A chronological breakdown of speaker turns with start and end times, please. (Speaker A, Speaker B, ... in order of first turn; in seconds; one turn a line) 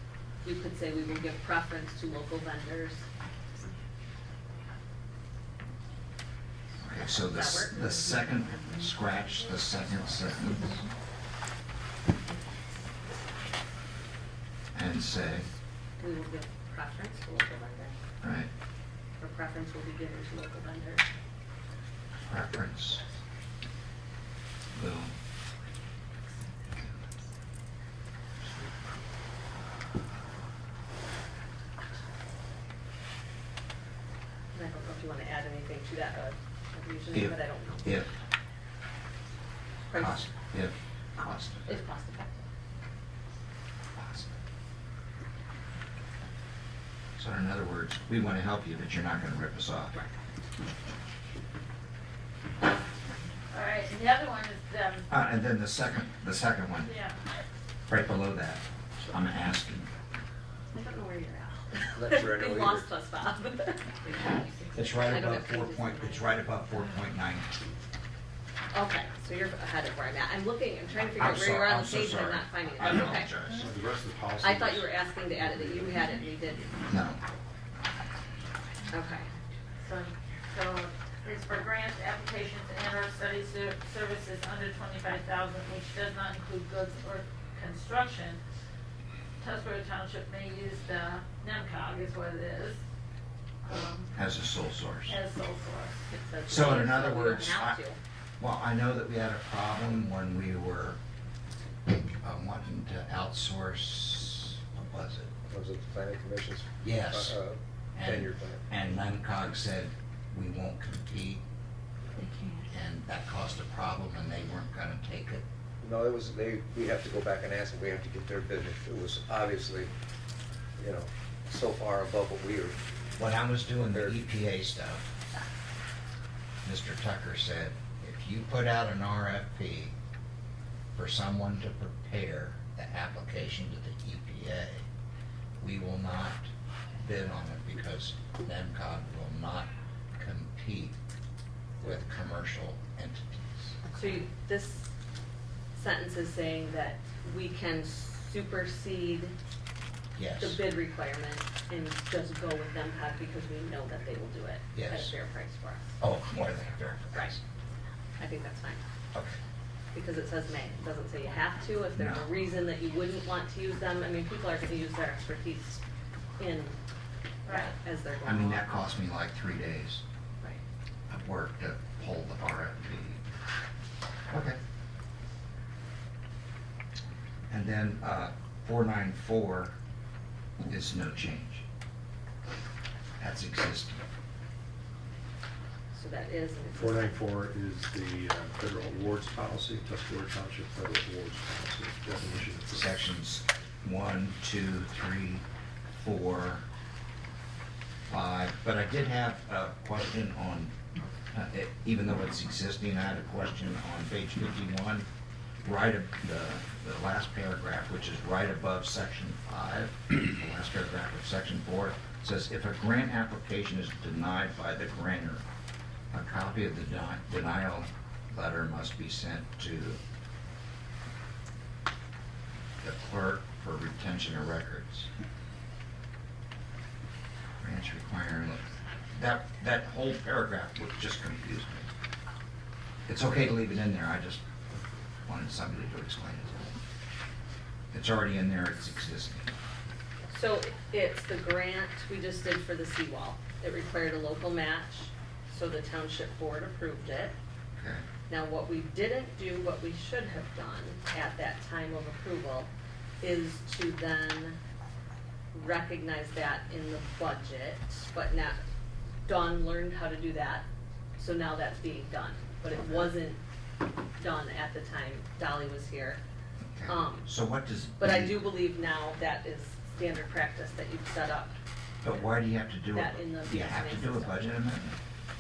Speaker A: 0.4-3.1
Speaker B: 6.8-10.8
Speaker A: 7.1-7.8
Speaker B: 14.8-15.5
Speaker A: 16.0-18.0
Speaker B: 18.2-18.5
Speaker A: 19.2-21.1
Speaker B: 22.3-23.0
Speaker B: 24.7-25.1
Speaker A: 34.5-38.1
Speaker B: 37.1-38.1
Speaker A: 39.9-40.3
Speaker B: 40.0-41.8
Speaker A: 41.7-42.4
Speaker B: 44.0-44.3
Speaker B: 47.2-50.0
Speaker C: 53.5-55.1
Speaker B: 55.1-56.9
Speaker C: 56.9-57.1
Speaker B: 57.9-59.9
Speaker A: 60.7-66.3
Speaker D: 62.0-62.9
Speaker B: 64.7-67.6
Speaker A: 68.7-73.3
Speaker B: 71.2-73.7
Speaker E: 73.6-75.9
Speaker A: 74.4-76.7
Speaker B: 76.9-77.2
Speaker A: 78.9-79.3
Speaker C: 79.8-88.4
Speaker C: 89.4-92.8
Speaker C: 93.7-94.1
Speaker B: 94.2-95.2
Speaker C: 95.1-96.0
Speaker A: 96.1-98.0
Speaker B: 96.5-97.8
Speaker B: 98.4-101.0
Speaker B: 102.2-105.3
Speaker D: 105.5-108.6
Speaker B: 106.8-107.4
Speaker B: 108.0-111.4
Speaker B: 112.7-115.4
Speaker D: 115.8-119.9
Speaker D: 120.8-122.8
Speaker B: 123.2-125.1
Speaker D: 123.9-124.2
Speaker B: 126.6-129.9
Speaker B: 131.0-134.8
Speaker B: 135.6-141.0
Speaker B: 141.8-143.8
Speaker A: 143.9-144.9
Speaker A: 145.7-149.3
Speaker B: 150.2-150.6
Speaker A: 150.4-155.9
Speaker B: 154.7-155.1
Speaker B: 156.0-157.4
Speaker A: 158.2-158.8
Speaker B: 159.1-159.4
Speaker A: 159.9-165.8
Speaker B: 161.9-162.3
Speaker A: 166.4-166.8
Speaker A: 167.4-168.7
Speaker C: 167.5-167.7
Speaker B: 168.2-170.0
Speaker B: 171.1-173.2
Speaker B: 174.3-174.6
Speaker B: 177.5-179.7
Speaker B: 180.6-181.6
Speaker B: 183.2-184.0
Speaker A: 185.9-187.2
Speaker E: 186.8-193.0
Speaker B: 192.7-196.7
Speaker B: 198.1-200.7
Speaker B: 201.3-205.1
Speaker B: 205.6-215.4
Speaker B: 216.1-220.0
Speaker B: 222.8-225.1
Speaker B: 227.6-231.9
Speaker B: 233.1-234.4
Speaker B: 235.2-236.8
Speaker B: 237.9-239.5
Speaker A: 240.3-247.3
Speaker B: 247.8-248.1
Speaker A: 248.3-254.6
Speaker A: 255.5-258.6
Speaker A: 259.3-260.7
Speaker A: 261.2-263.4
Speaker A: 264.2-266.2
Speaker B: 266.7-268.4
Speaker A: 266.9-267.3
Speaker A: 268.0-271.6
Speaker B: 272.0-275.0
Speaker A: 272.9-274.4